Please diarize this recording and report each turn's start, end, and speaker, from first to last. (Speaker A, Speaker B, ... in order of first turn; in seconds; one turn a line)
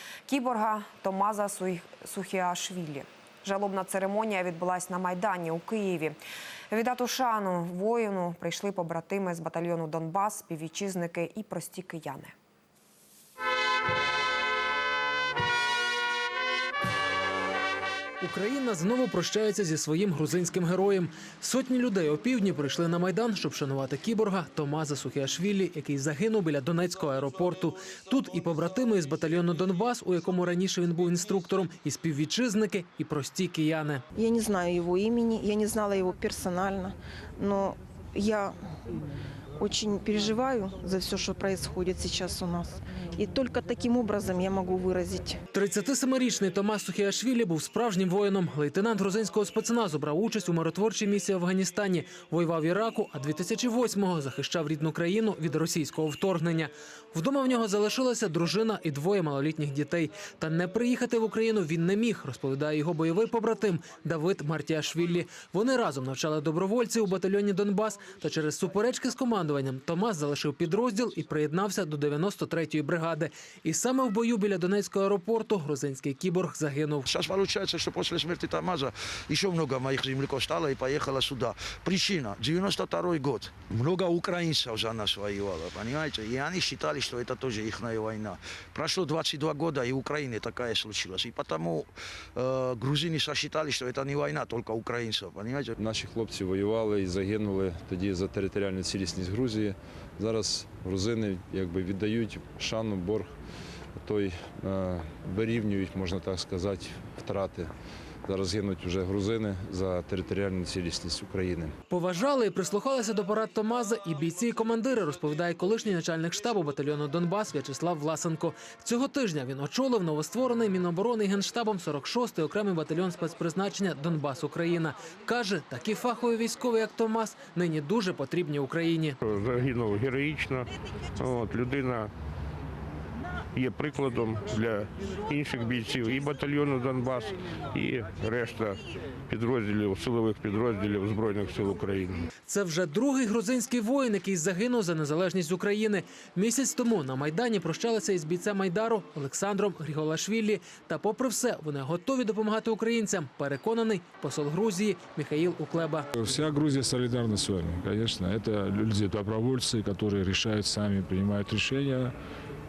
Speaker A: 0.3-6.2
Speaker A: 6.7-12.3
Speaker B: 18.2-34.0
Speaker C: 34.1-38.5
Speaker C: 39.6-45.4
Speaker B: 45.5-77.1
Speaker D: 77.1-95.7
Speaker E: 95.8-103.3
Speaker E: 104.0-107.7
Speaker E: 108.2-111.7
Speaker B: 111.9-129.2
Speaker F: 129.2-132.1
Speaker F: 133.5-142.3
Speaker B: 142.4-156.1
Speaker G: 156.2-162.1